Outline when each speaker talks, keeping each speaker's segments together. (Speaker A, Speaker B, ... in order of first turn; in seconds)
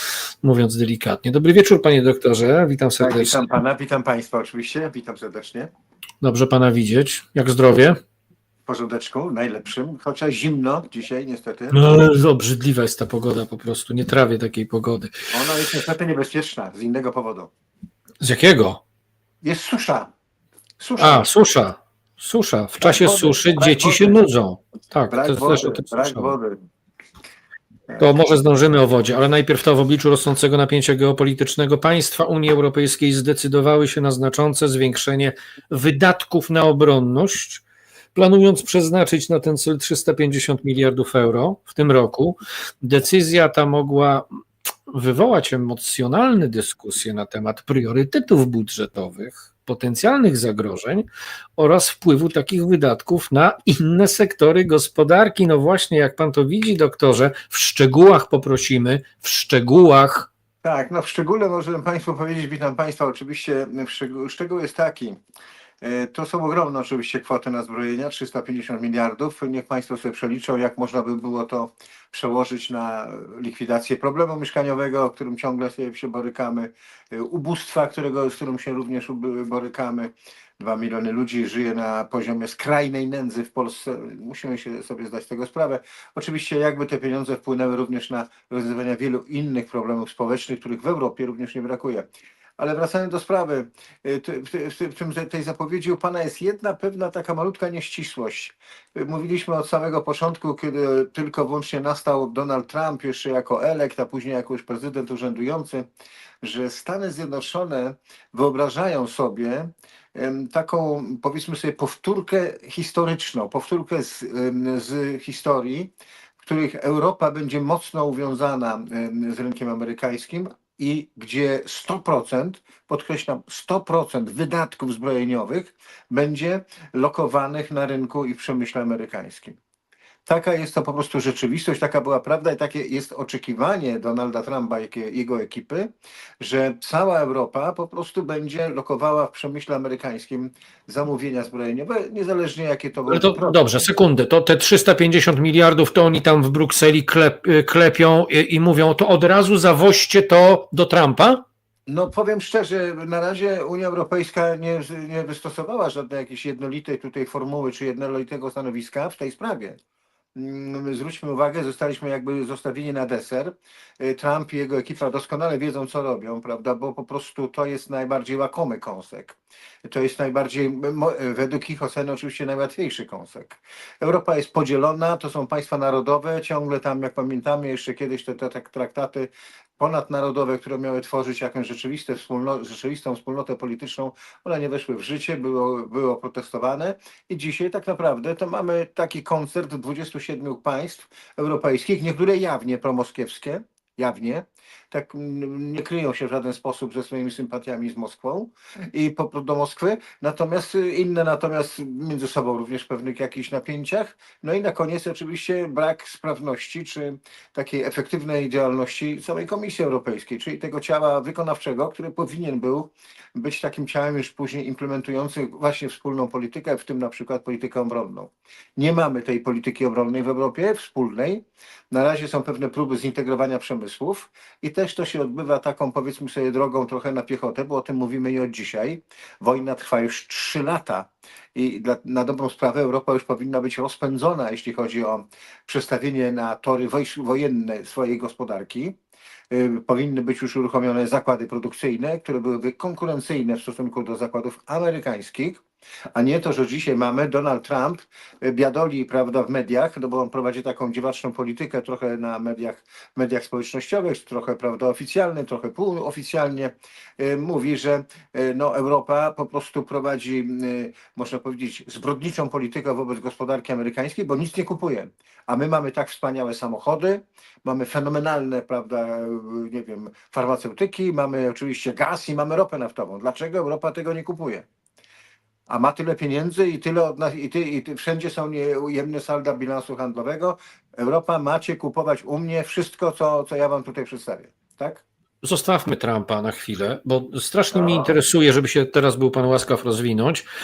Speaker A: 0.4-3.5, 6.2-8.0, 11.7-15.3, 18.2-18.8, 21.0-26.4, 28.0-37.6, 38.1-44.3, 44.9-51.1, 51.6-60.3, 143.1-151.4, 285.4-290.4
Speaker B: 3.0-5.7, 8.7-11.9, 15.3-17.5, 19.4-20.1, 20.8-21.3, 22.8-24.2, 25.1-26.6, 60.6-65.2, 65.8-92.1, 92.6-105.9, 106.4-115.9, 116.4-129.6, 130.3-143.6, 151.9-159.8, 160.3-238.9, 239.5-245.6, 246.2-274.7, 275.7-285.0, 287.7-288.1